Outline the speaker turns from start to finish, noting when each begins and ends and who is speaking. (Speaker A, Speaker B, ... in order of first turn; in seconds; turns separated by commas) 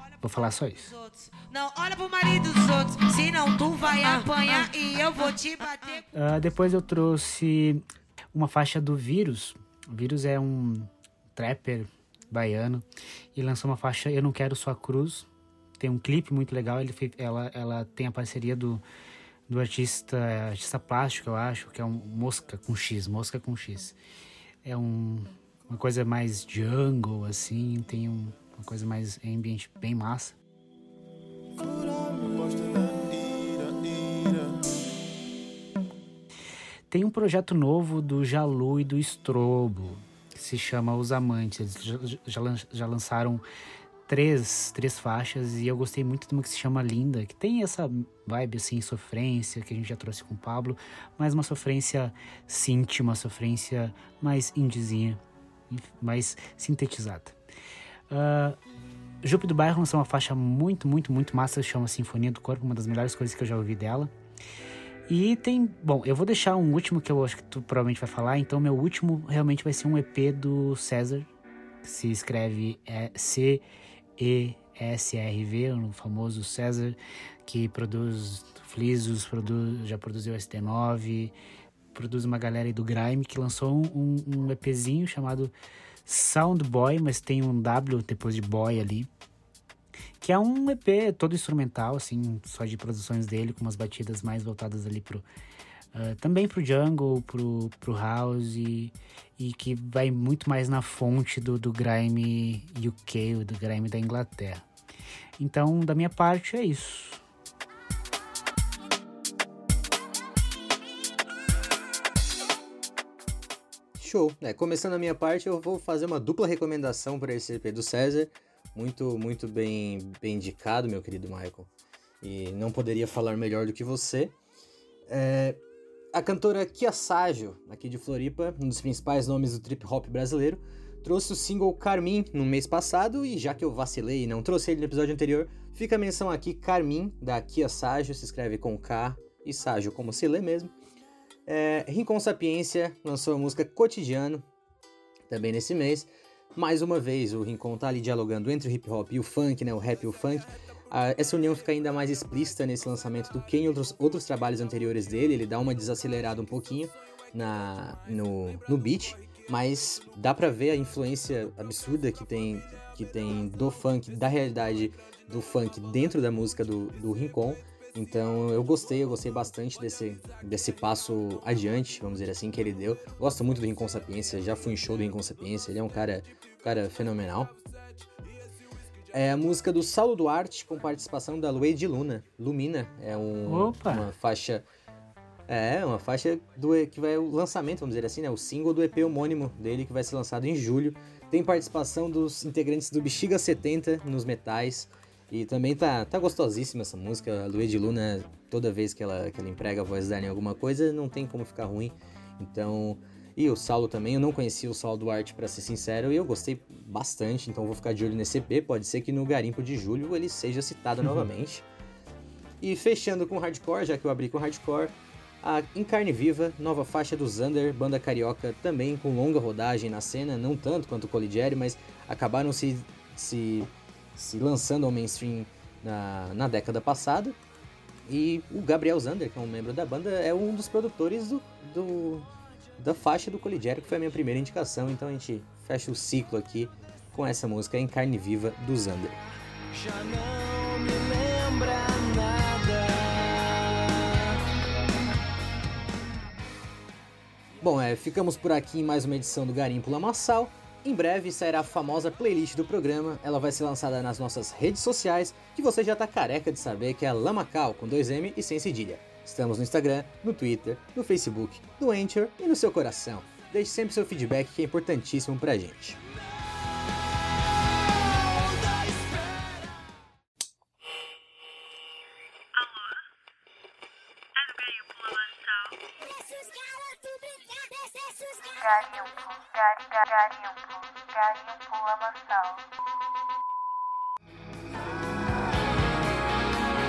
Speaker A: 0.2-0.9, Speaker B: 0.9-6.0, Speaker A: 6.1-12.8, Speaker A: 13.3-15.3, Speaker A: 15.8-18.8, Speaker A: 19.5-24.0, Speaker A: 24.6-30.3, Speaker C: 31.6-34.3, Speaker A: 36.9-43.4, Speaker A: 44.1-57.3, Speaker A: 58.1-58.6, Speaker A: 59.2-64.1, Speaker A: 65.1-71.3, Speaker A: 71.8-73.6, Speaker A: 74.2-81.3, Speaker A: 81.9-85.5, Speaker A: 86.0-89.1, Speaker A: 90.2-95.2, Speaker A: 95.9-104.6, Speaker A: 105.4-107.2, Speaker D: 114.0-121.7, Speaker D: 122.2-124.3, Speaker D: 125.1-125.6, Speaker D: 126.1-140.7, Speaker D: 141.4-144.4, Speaker D: 145.3-177.5, Speaker D: 179.1-184.7, Speaker A: 183.5-184.1, Speaker D: 185.5-211.6, Speaker D: 212.6-227.4, Speaker D: 228.1-232.3, Speaker D: 232.8-239.2, Speaker C: 239.7-244.0, Speaker D: 247.6-266.0, Speaker C: 268.4-269.4, Speaker E: 272.5-273.1, Speaker E: 274.3-275.8, Speaker E: 278.2-282.6